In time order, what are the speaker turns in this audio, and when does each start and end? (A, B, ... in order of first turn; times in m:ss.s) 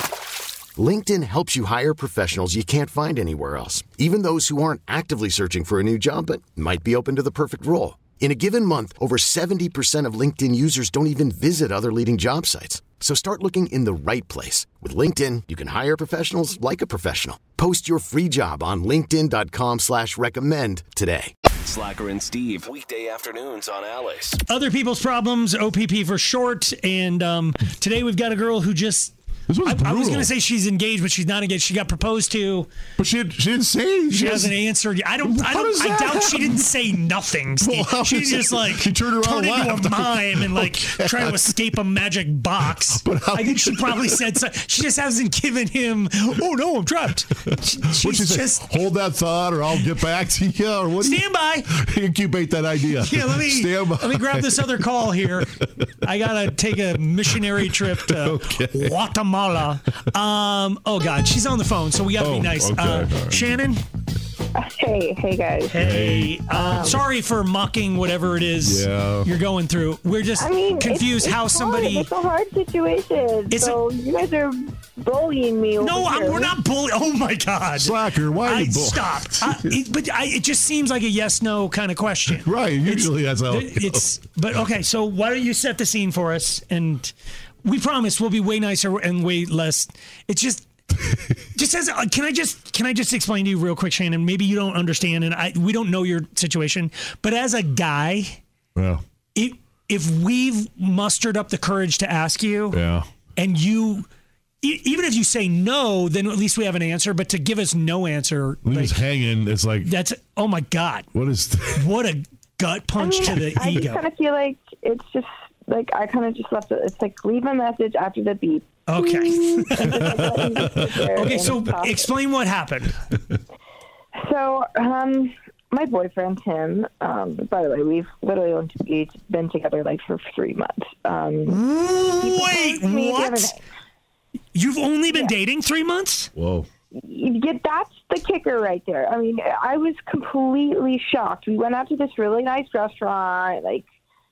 0:00.8-0:21.3 A
0:21.6-0:24.4 B
0:24.5-0:29.1 C
0:29.5-0:30.3 D
0:29.6-0:32.7 C
0:33.0-0:34.5 D
0:34.1-0:48.7 C
0:35.2-0:36.7 D
0:37.6-0:41.5 D
0:42.7-0:44.2 D
0:47.5-0:55.9 D
0:51.0-0:51.7 C
0:52.9-0:55.5 C
0:56.0-1:03.8 C
0:57.3-0:59.0 D
1:02.2-1:03.5 D
1:04.5-1:05.9 E
1:05.7-1:12.1 C
1:05.7-1:06.4 D
1:06.5-1:07.0 E
1:08.6-1:09.3 D
1:10.4-1:16.5 E
1:13.5-1:13.8 C
1:15.8-1:27.1 C
1:17.8-1:19.8 D
1:22.3-1:24.1 D
1:27.6-1:30.7 C
1:31.5-1:38.4 C
1:38.7-1:39.0 D
1:39.3-1:42.8 C
1:42.7-1:43.1 D
1:43.4-1:44.0 C
1:44.6-1:49.0 C
1:48.6-1:49.9 D
1:49.8-1:51.1 C
1:51.1-1:51.9 D
1:51.7-1:54.0 C
1:53.0-2:02.1 E
1:58.9-2:00.3 C
1:59.8-2:01.1 D
2:01.0-2:02.9 C
2:04.1-2:11.6 E
2:11.5-2:13.5 C
2:12.2-2:13.6 E
2:14.5-2:16.3 C
2:16.3-2:16.7 D
2:17.0-2:23.8 E